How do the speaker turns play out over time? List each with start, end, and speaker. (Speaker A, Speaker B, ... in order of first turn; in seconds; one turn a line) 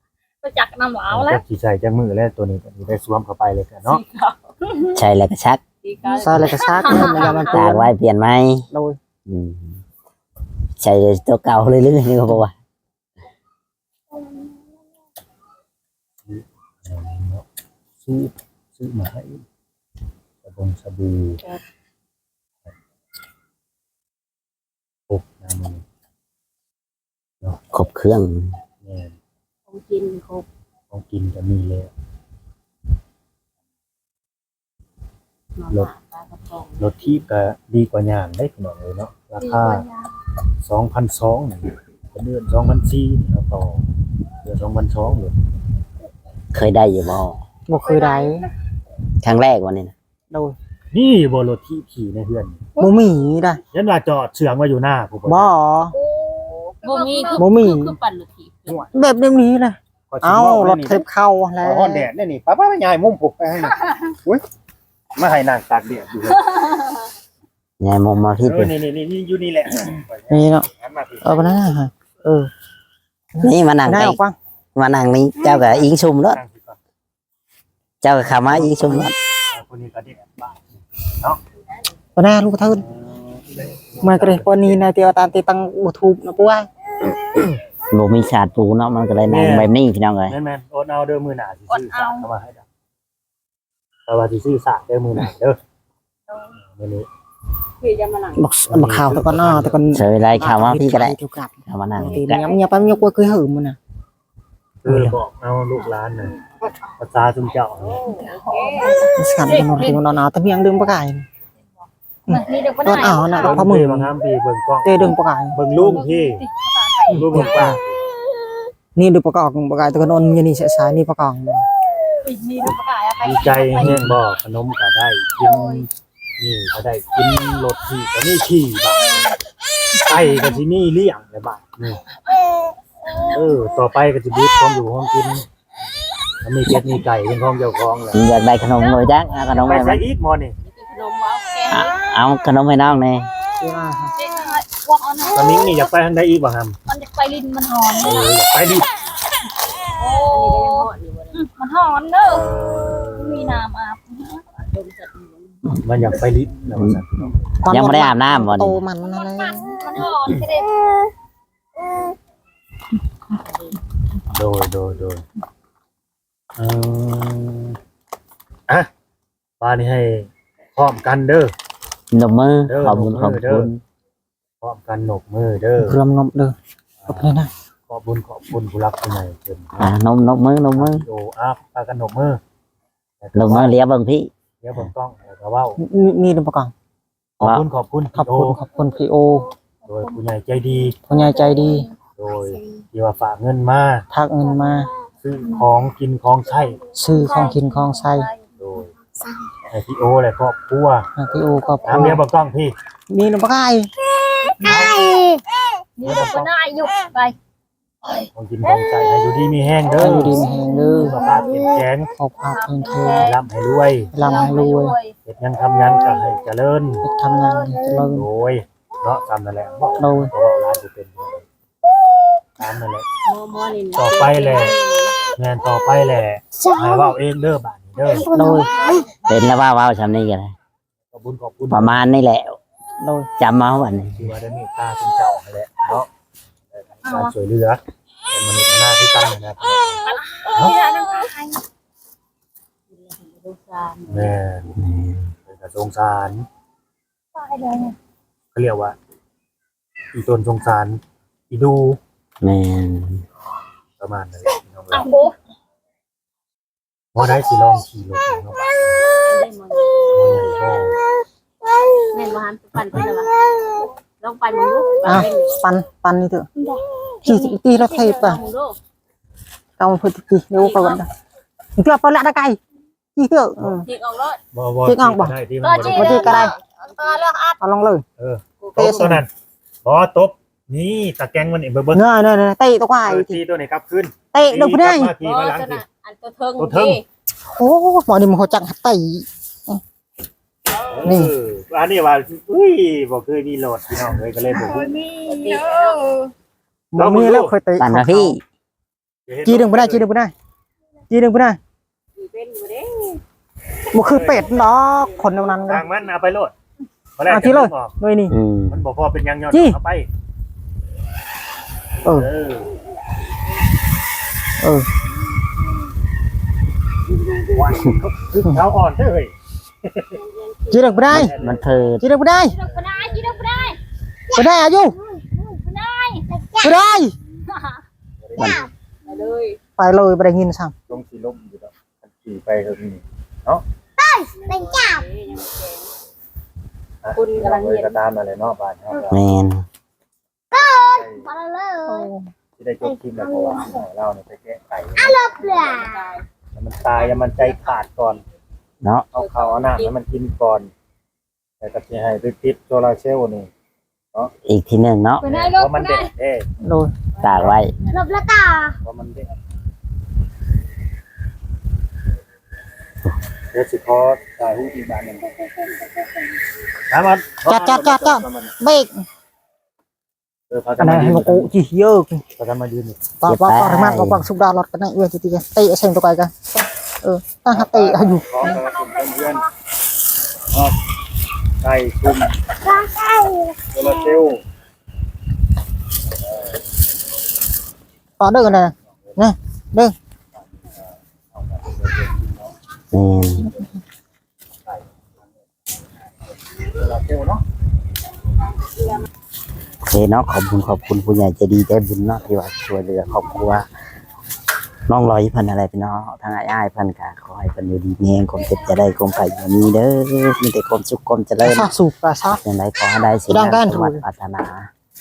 Speaker A: 0.4-1.4
Speaker B: 1.1-4.0
Speaker C: 3.9-4.5
Speaker D: 5.0-5.6
Speaker C: 5.8-7.5
Speaker E: 6.1-7.9
Speaker A: 6.7-7.6
Speaker D: 7.5-8.7
Speaker E: 8.7-9.0
Speaker D: 9.3-9.8
Speaker D: 10.8-12.5
Speaker B: 16.3-17.4
Speaker B: 18.0-19.4
Speaker B: 20.4-21.4
Speaker B: 25.1-25.8
Speaker D: 27.7-28.5
Speaker B: 28.8-29.1
Speaker C: 29.7-30.5
Speaker B: 30.9-31.9
Speaker C: 35.6-37.2
Speaker B: 36.8-39.9
Speaker A: 39.4-40.1
Speaker B: 40.6-43.9
Speaker B: 44.4-45.4
Speaker D: 46.5-47.4
Speaker E: 47.7-48.5
Speaker A: 47.9-48.5
Speaker D: 49.2-49.9
Speaker E: 50.3-50.6
Speaker B: 50.9-52.6
Speaker E: 52.8-53.6
Speaker B: 53.7-55.5
Speaker E: 55.3-56.0
Speaker A: 55.9-57.5
Speaker C: 56.8-58.9
Speaker E: 57.4-58.0
Speaker B: 58.7-58.9
Speaker E: 58.9-62.1
Speaker B: 60.1-61.0
Speaker B: 61.6-64.4
Speaker B: 65.2-66.6
Speaker D: 67.8-68.8
Speaker B: 68.4-71.6
Speaker E: 70.3-70.7
Speaker E: 71.2-72.5
Speaker E: 73.3-74.3
Speaker D: 73.4-74.2
Speaker D: 74.8-76.4
Speaker B: 75.5-76.8
Speaker D: 78.0-79.2
Speaker E: 78.5-79.1
Speaker B: 79.5-80.6
Speaker E: 82.2-82.8
Speaker B: 82.8-84.8
Speaker E: 84.0-86.7
Speaker D: 87.9-90.4
Speaker B: 89.3-89.7
Speaker B: 90.3-92.6
Speaker A: 91.7-92.3
Speaker B: 94.1-95.6
Speaker A: 96.3-96.5
Speaker B: 96.8-97.1
Speaker C: 97.8-98.5
Speaker E: 98.4-103.8
Speaker B: 98.7-99.8
Speaker D: 99.9-102.4
Speaker C: 102.0-103.0
Speaker B: 104.8-106.4
Speaker E: 104.9-105.2
Speaker B: 107.0-108.0
Speaker C: 107.8-109.1
Speaker A: 108.2-110.0
Speaker E: 109.2-111.3
Speaker E: 112.3-114.1
Speaker A: 112.3-113.7
Speaker B: 113.3-116.5
Speaker E: 114.8-116.0
Speaker A: 115.9-117.8
Speaker E: 117.1-117.8
Speaker B: 117.1-118.0
Speaker E: 119.0-121.7
Speaker A: 122.2-124.0
Speaker B: 123.2-125.9
Speaker E: 123.8-124.1
Speaker A: 125.4-125.9
Speaker B: 126.4-129.3
Speaker A: 129.0-129.4
Speaker B: 130.0-132.0
Speaker A: 130.1-130.6
Speaker B: 133.3-135.5
Speaker B: 136.4-138.2
Speaker D: 138.1-140.1
Speaker B: 139.6-140.6
Speaker C: 140.6-142.0
Speaker D: 141.7-143.3
Speaker E: 143.6-144.1
Speaker A: 144.2-145.9
Speaker B: 145.3-146.8
Speaker A: 146.9-148.3
Speaker B: 148.0-148.9
Speaker A: 150.0-154.4
Speaker C: 150.1-151.5
Speaker C: 154.6-155.6
Speaker B: 155.8-157.6
Speaker E: 157.6-159.8
Speaker D: 157.7-158.8
Speaker A: 159.0-160.8
Speaker C: 163.4-163.8
Speaker B: 164.3-165.2
Speaker B: 166.6-167.8
Speaker B: 169.6-171.5
Speaker D: 172.1-173.8
Speaker B: 172.7-173.7
Speaker B: 174.6-176.0
Speaker E: 175.8-176.6
Speaker B: 177.1-179.9
Speaker E: 177.1-177.5
Speaker D: 179.8-181.1
Speaker B: 180.8-182.4
Speaker B: 183.2-183.8
Speaker D: 183.3-184.8
Speaker B: 184.6-185.8
Speaker E: 185.8-186.7
Speaker B: 187.4-188.6
Speaker E: 188.2-189.5
Speaker A: 189.8-190.2
Speaker B: 189.9-191.0
Speaker E: 191.1-191.9
Speaker A: 191.1-191.9
Speaker B: 192.2-194.1
Speaker A: 192.5-192.8
Speaker E: 194.1-194.9
Speaker B: 195.2-196.8
Speaker E: 196.9-198.3
Speaker A: 197.1-198.4
Speaker B: 198.6-198.9
Speaker B: 199.7-201.1
Speaker E: 201.2-202.2
Speaker B: 201.9-202.8
Speaker E: 203.1-203.9
Speaker E: 204.6-205.4
Speaker B: 204.6-205.0
Speaker A: 206.0-207.4
Speaker B: 206.0-206.5
Speaker B: 208.3-212.1
Speaker E: 209.9-211.3
Speaker A: 210.0-211.8
Speaker E: 212.2-213.3
Speaker C: 212.4-213.3
Speaker B: 213.1-214.1
Speaker E: 214.1-215.0
Speaker C: 214.1-215.0
Speaker A: 214.2-215.1
Speaker B: 215.3-217.1
Speaker E: 217.0-218.3
Speaker A: 217.4-218.0
Speaker B: 218.1-221.4
Speaker E: 220.0-220.3
Speaker B: 222.6-223.1
Speaker C: 223.3-225.2
Speaker B: 224.0-224.8
Speaker B: 225.4-228.3
Speaker E: 228.3-228.7
Speaker A: 228.3-229.1
Speaker D: 229.3-230.5
Speaker B: 231.1-232.0
Speaker D: 231.7-232.6
Speaker E: 233.0-233.3
Speaker D: 233.4-234.3
Speaker B: 234.2-236.1
Speaker B: 236.7-240.8
Speaker A: 237.1-237.3
Speaker A: 240.1-241.6
Speaker C: 242.9-244.4
Speaker B: 244.1-244.8
Speaker D: 244.8-245.3
Speaker B: 245.5-246.5
Speaker A: 247.3-248.0
Speaker B: 248.5-249.0
Speaker B: 250.1-252.0
Speaker D: 252.4-253.2
Speaker B: 254.0-255.1
Speaker A: 254.9-255.4
Speaker B: 257.1-259.0
Speaker C: 259.2-261.0
Speaker B: 260.1-261.0
Speaker C: 262.1-263.3
Speaker C: 264.2-265.6
Speaker E: 265.0-266.5
Speaker E: 267.2-268.4
Speaker C: 267.8-268.8
Speaker E: 269.8-271.1
Speaker C: 270.5-271.0
Speaker E: 271.8-272.6
Speaker E: 273.2-273.9
Speaker C: 273.7-274.4
Speaker B: 274.5-276.5
Speaker E: 274.9-275.4
Speaker A: 275.6-277.6
Speaker E: 275.9-276.6
Speaker C: 276.2-276.6
Speaker E: 277.6-278.0
Speaker B: 278.2-279.3
Speaker C: 278.6-279.1
Speaker E: 278.8-279.2
Speaker B: 279.9-282.0
Speaker E: 281.9-283.4
Speaker B: 283.0-285.8
Speaker E: 284.3-285.1
Speaker C: 285.2-287.1
Speaker B: 286.6-287.0
Speaker E: 287.5-289.8
Speaker B: 290.9-294.9
Speaker E: 291.1-291.3
Speaker A: 294.5-296.3
Speaker C: 295.2-296.0
Speaker E: 296.9-298.3
Speaker B: 296.9-297.6
Speaker D: 297.8-298.4
Speaker B: 299.3-300.1
Speaker E: 299.4-300.3
Speaker E: 301.1-301.6
Speaker C: 302.2-303.2
Speaker E: 303.9-305.8
Speaker B: 304.0-304.6
Speaker C: 304.5-305.8
Speaker B: 305.7-306.5
Speaker B: 307.2-308.0
Speaker E: 307.3-308.3
Speaker D: 308.3-308.8
Speaker B: 308.7-310.1
Speaker E: 309.5-309.8
Speaker E: 312.1-312.3
Speaker B: 312.1-312.7
Speaker E: 314.6-314.9
Speaker B: 317.5-319.3
Speaker B: 319.8-320.1
Speaker C: 320.1-321.2
Speaker E: 320.7-321.3
Speaker B: 321.1-321.9
Speaker D: 321.1-322.1
Speaker E: 322.0-322.6
Speaker A: 322.4-323.8
Speaker C: 323.2-323.4
Speaker E: 324.3-325.0
Speaker A: 325.1-326.6
Speaker E: 326.6-327.1
Speaker A: 327.5-327.8
Speaker B: 328.2-328.7
Speaker D: 328.4-328.7
Speaker C: 329.1-329.6
Speaker E: 329.8-330.7
Speaker B: 330.9-333.6
Speaker A: 334.0-334.8
Speaker C: 334.3-335.9
Speaker B: 337.0-339.2
Speaker C: 337.1-338.0
Speaker D: 339.1-339.7
Speaker B: 340.5-341.3
Speaker A: 341.0-342.1
Speaker E: 341.9-342.3
Speaker B: 342.6-345.3
Speaker C: 345.2-346.2
Speaker A: 345.3-345.9
Speaker B: 346.6-348.2
Speaker C: 346.8-348.3
Speaker B: 349.1-350.7
Speaker C: 349.1-349.9
Speaker B: 351.6-353.5
Speaker D: 354.4-355.3
Speaker A: 355.2-356.1
Speaker B: 355.2-356.5
Speaker E: 356.6-356.9
Speaker C: 357.1-358.3
Speaker D: 357.2-357.7
Speaker A: 357.9-358.8
Speaker B: 358.8-359.3
Speaker B: 363.5-365.3
Speaker B: 366.9-368.5
Speaker E: 367.5-369.1
Speaker B: 370.5-371.5
Speaker E: 370.8-372.2
Speaker B: 372.4-373.0
Speaker E: 373.2-378.5
Speaker D: 373.3-374.3
Speaker B: 377.5-379.5
Speaker A: 378.4-379.5
Speaker B: 381.6-382.3
Speaker B: 383.7-384.4
Speaker E: 388.2-389.9
Speaker B: 388.5-389.2
Speaker B: 391.3-392.5
Speaker D: 392.9-393.5
Speaker B: 396.6-397.4
Speaker D: 399.8-403.7
Speaker D: 404.9-411.7
Speaker E: 411.4-412.4
Speaker D: 412.4-414.7
Speaker E: 413.3-414.0